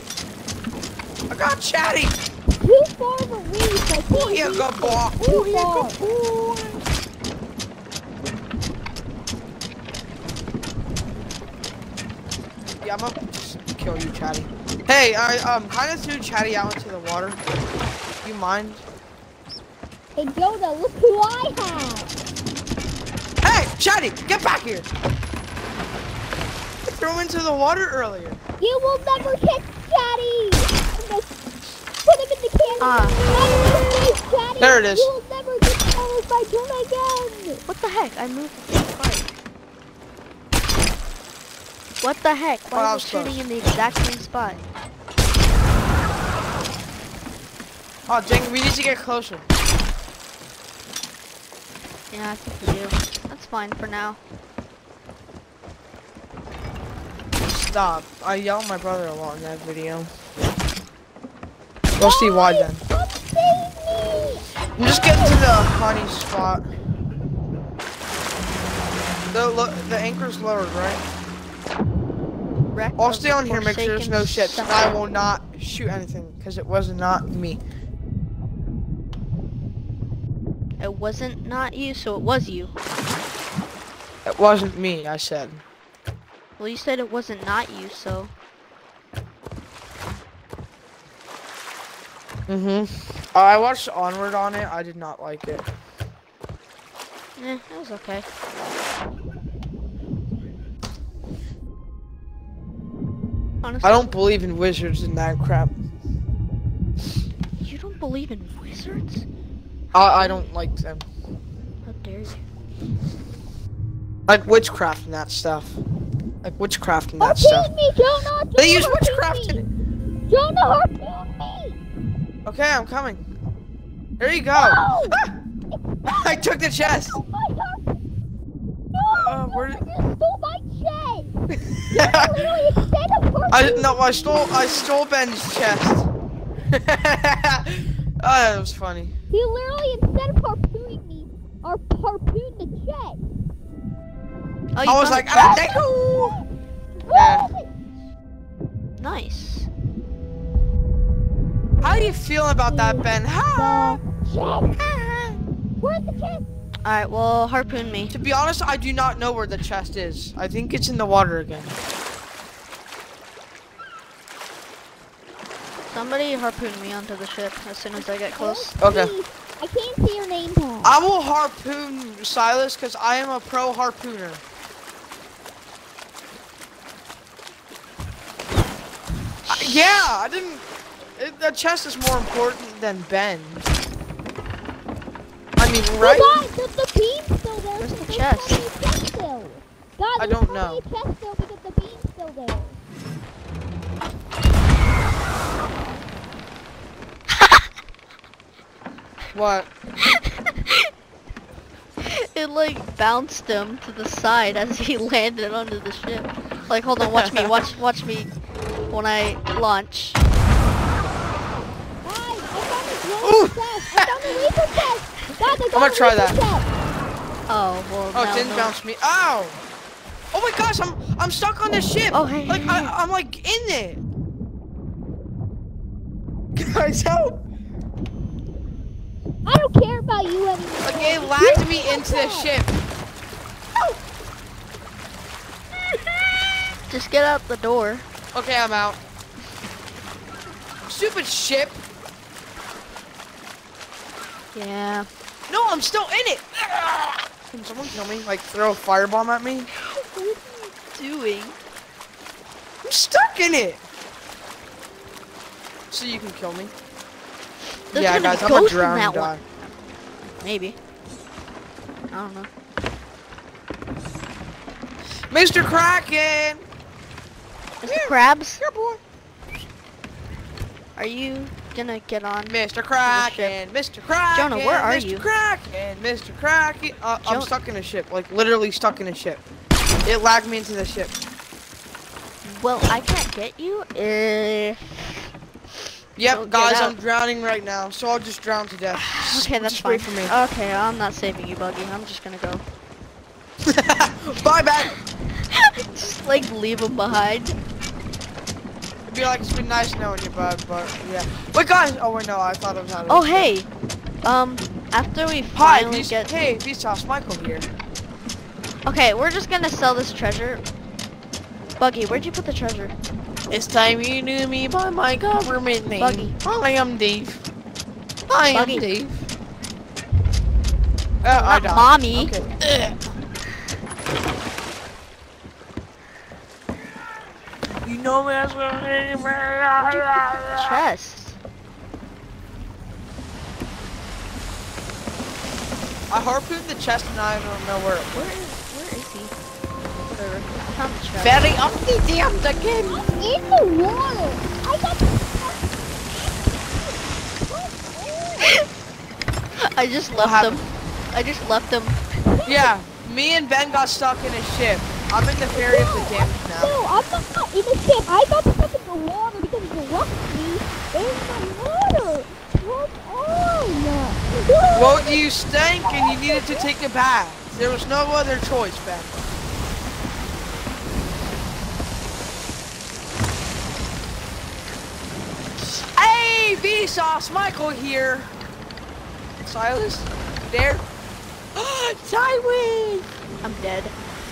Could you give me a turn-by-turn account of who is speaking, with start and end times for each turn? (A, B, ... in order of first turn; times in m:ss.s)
0:01.3-0:02.2 A
0:02.6-0:06.0 B
0:04.1-0:06.8 A
0:12.8-0:17.4 A
0:18.2-0:18.8 A
0:20.2-0:22.1 B
0:23.4-0:24.9 A
0:26.8-0:28.4 A
0:28.6-0:31.3 B
0:32.0-0:37.6 B
0:32.8-0:33.2 C
0:34.6-0:35.1 A
0:37.6-0:39.3 C
0:42.0-0:44.6 C
0:42.7-0:43.4 A
0:48.1-0:49.4 A
0:52.1-0:54.2 C
0:57.4-1:00.1 A
1:01.9-1:05.8 B
1:02.0-1:02.8 A
1:04.8-1:06.7 A
1:09.3-1:11.0 A
1:12.7-1:14.9 C
1:13.0-1:17.6 A
1:20.8-1:22.7 C
1:24.2-1:25.6 A
1:26.6-1:28.3 C
1:32.5-1:35.7 A
1:37.4-1:38.2 C
1:43.6-1:44.1 C
1:43.8-1:45.7 A
1:47.6-1:49.2 C
1:49.9-1:50.4 C
1:49.9-1:51.0 A
1:51.8-1:52.4 C
1:54.3-1:55.8 A
1:56.4-1:57.7 A
1:57.2-1:59.6 B
1:58.6-1:59.7 A
2:00.3-2:01.8 B
2:02.4-2:03.2 A
2:04.2-2:05.3 A
2:04.5-2:05.2 B
2:06.0-2:08.0 B
2:06.0-2:07.2 A
2:08.9-2:14.9 B
2:09.1-2:09.8 A
2:11.5-2:12.5 A
2:13.5-2:16.1 A
2:16.7-2:19.1 A
2:19.3-2:23.2 B
2:24.7-2:25.6 C
2:24.8-2:26.4 A
2:25.4-2:26.4 B
2:27.0-2:27.7 B
2:27.1-2:27.5 A
2:29.0-2:29.7 C
2:31.8-2:32.1 B
2:31.8-2:34.0 A
2:32.6-2:34.8 B
2:34.8-2:35.4 A
2:35.8-2:36.4 B
2:36.8-2:38.2 C
2:38.1-2:41.7 A
2:45.8-2:48.8 C
2:48.0-2:50.9 B
2:48.8-2:49.1 A
2:50.8-2:54.4 A
2:59.4-3:00.1 C
2:59.5-3:03.7 A
3:05.6-3:06.4 A
3:06.0-3:12.8 B
3:07.8-3:08.6 C
3:10.2-3:10.8 A
3:19.3-3:19.7 A
3:20.1-3:20.9 C
3:22.0-3:28.3 C
3:27.0-3:27.6 A
3:28.9-3:30.2 C
3:32.0-3:36.7 B
3:33.2-3:34.3 A
3:35.7-3:36.4 A
3:37.5-3:38.7 C
3:38.1-3:39.6 A
3:40.3-3:44.0 A
3:42.1-3:42.9 C
3:46.5-3:47.4 A
3:49.4-3:52.5 B
3:50.8-3:52.7 A
3:56.9-3:58.0 C
3:58.3-3:59.0 A
4:00.8-4:01.8 A
4:04.5-4:05.1 C
4:05.5-4:09.7 A
4:09.8-4:11.6 C
4:12.8-4:13.8 A
4:15.9-4:16.7 A
4:17.9-4:19.7 C
4:17.9-4:19.4 A
4:20.4-4:20.8 C
4:22.1-4:22.5 C
4:25.3-4:26.6 A
4:27.8-4:28.6 C
4:27.8-4:29.0 A
4:31.0-4:33.5 C
4:32.4-4:39.4 A
4:34.3-4:35.3 C
4:37.2-4:37.5 C
4:40.0-4:41.1 A
4:42.4-4:45.1 C
4:46.2-4:50.3 A
4:46.2-4:47.0 C
4:48.9-4:52.6 C
4:53.6-4:55.0 A
4:55.5-4:57.6 C
4:59.1-5:03.5 A
5:03.1-5:03.7 C
5:04.2-5:06.3 C
5:05.5-5:07.7 A
5:08.8-5:10.6 C
5:11.8-5:12.9 C
5:13.5-5:17.4 A
5:16.0-5:16.3 C
5:18.3-5:19.2 A
5:18.5-5:18.8 C
5:21.2-5:23.0 A
5:21.3-5:22.3 C
5:27.8-5:30.8 A
5:29.8-5:31.4 C
5:36.1-5:38.1 A
5:38.1-5:39.3 C
5:40.1-5:41.5 C
5:41.2-5:43.0 A
5:42.8-5:46.6 B
5:47.5-5:48.6 B
5:49.6-5:52.0 C
5:50.1-5:50.6 A
5:52.3-5:52.7 B
5:52.4-5:56.8 A
5:55.5-6:05.2 B
6:04.7-6:09.3 A
6:05.8-6:06.7 B
6:15.6-6:18.3 A
6:19.4-6:20.8 A
6:21.5-6:23.1 A
6:23.4-6:23.9 C